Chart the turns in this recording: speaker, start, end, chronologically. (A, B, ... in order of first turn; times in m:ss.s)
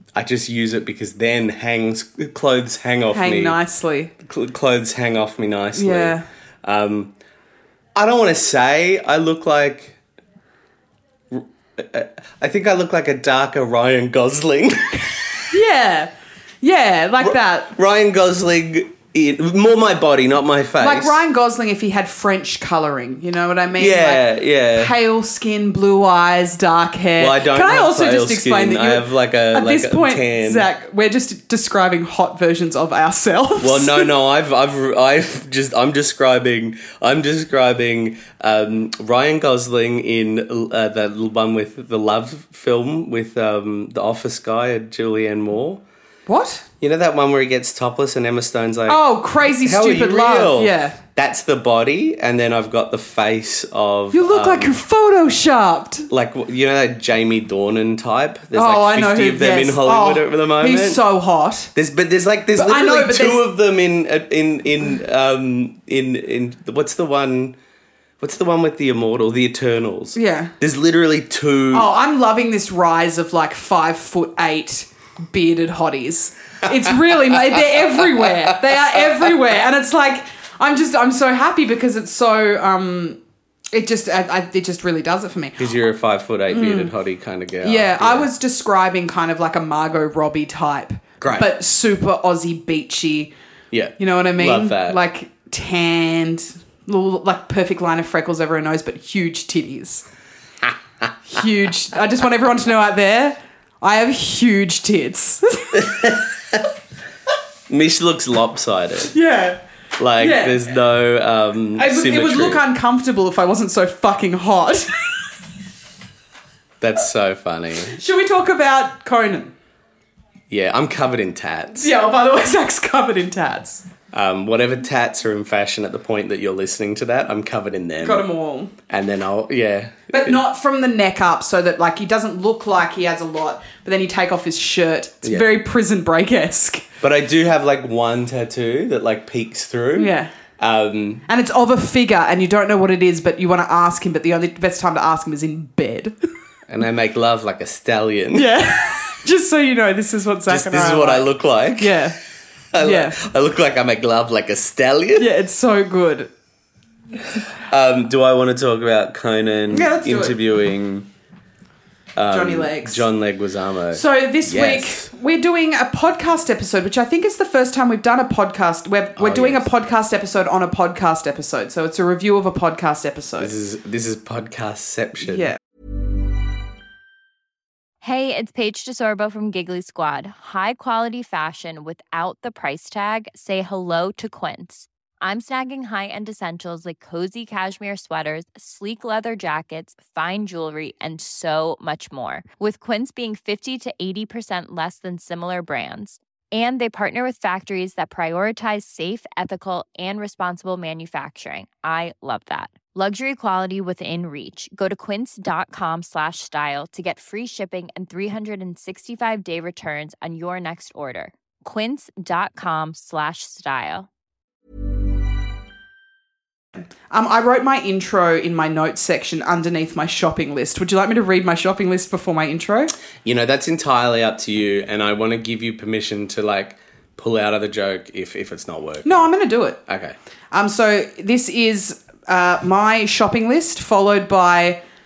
0:00.1-0:03.6 A
0:03.1-0:04.1 B
0:04.2-0:07.1 A
0:05.7-0:06.2 B
0:07.9-0:10.0 A
0:11.3-0:15.4 A
0:15.5-0:17.7 B
0:17.2-0:21.2 A
0:20.8-0:34.1 B
0:23.8-0:24.9 A
0:27.2-0:30.7 A
0:33.6-0:45.8 A
0:46.3-0:46.6 B
0:46.8-0:49.0 A
0:48.9-0:51.0 B
0:49.6-0:54.8 A
0:54.1-0:56.1 B
0:56.1-1:01.0 A
0:58.5-1:01.7 B
1:01.7-1:07.6 A
1:02.6-1:03.4 B
1:08.2-1:11.9 A
1:10.1-1:10.5 B
1:11.7-1:23.2 B
1:23.7-1:25.6 B
1:25.6-1:28.3 A
1:26.5-1:26.9 B
1:27.6-1:33.3 B
1:31.2-1:31.5 A
1:33.7-1:35.0 A
1:34.0-1:40.1 B
1:41.3-1:46.1 B
1:45.7-1:46.6 A
1:47.7-1:49.1 A
1:49.1-1:49.6 B
1:50.0-1:52.6 A
1:50.2-1:50.6 B
1:51.8-1:55.1 B
1:56.8-1:58.0 A
1:58.0-1:59.5 B
2:00.5-2:01.9 A
2:01.8-2:03.8 B
2:04.1-2:08.2 A
2:08.0-2:08.7 B
2:08.9-2:10.4 A
2:10.1-2:16.9 B
2:15.2-2:15.5 A
2:17.0-2:21.2 A
2:19.9-2:20.3 B
2:21.3-2:26.2 B
2:26.7-2:28.6 A
2:28.3-2:32.2 B
2:30.5-2:32.1 A
2:32.7-2:35.3 A
2:32.8-2:33.2 B
2:35.2-2:36.3 B
2:37.6-2:41.1 A
2:39.7-2:40.4 B
2:42.2-2:45.1 A
2:42.3-2:43.0 B
2:43.9-2:53.5 B
2:49.2-2:49.7 A
2:53.4-2:55.5 A
2:55.2-2:55.6 B
2:58.0-3:34.1 C
3:37.1-3:42.9 B
3:43.2-3:49.1 A
3:49.0-3:49.8 B
3:49.9-3:50.2 A
3:50.5-3:54.8 B